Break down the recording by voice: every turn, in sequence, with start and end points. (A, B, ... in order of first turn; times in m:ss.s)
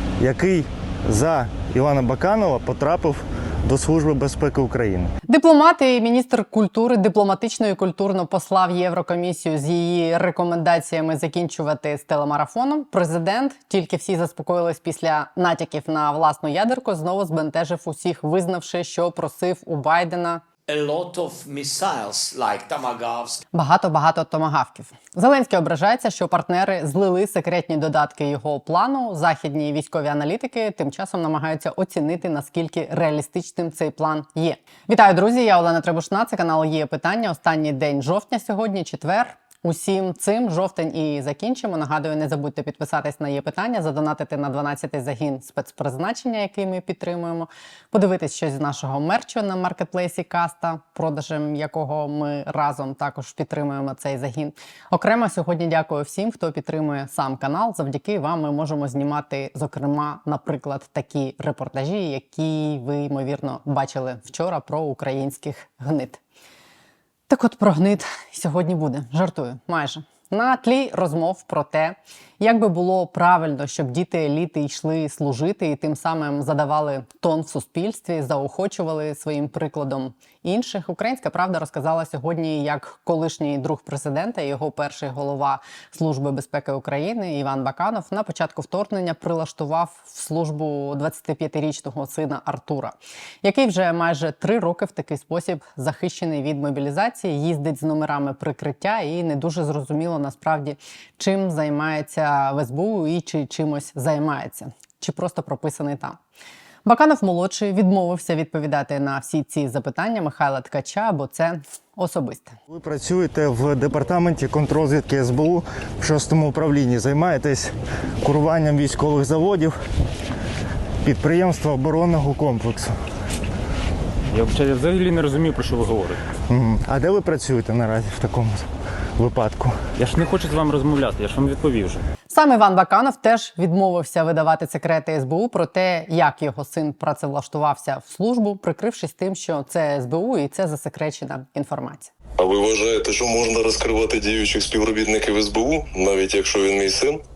0:00.2-0:05.1 A
0:05.3-0:20.4 B
0:20.9-0:23.2 C
0:23.5-1:06.2 B
1:07.3-1:46.2 B
1:46.8-1:52.6 B
1:52.7-1:59.8 A
2:01.0-2:02.9 A
2:04.3-2:06.2 D
2:06.5-2:08.6 A
2:09.2-2:09.7 A
2:10.0-2:12.0 D
2:12.3-2:22.1 B
2:22.4-2:27.2 E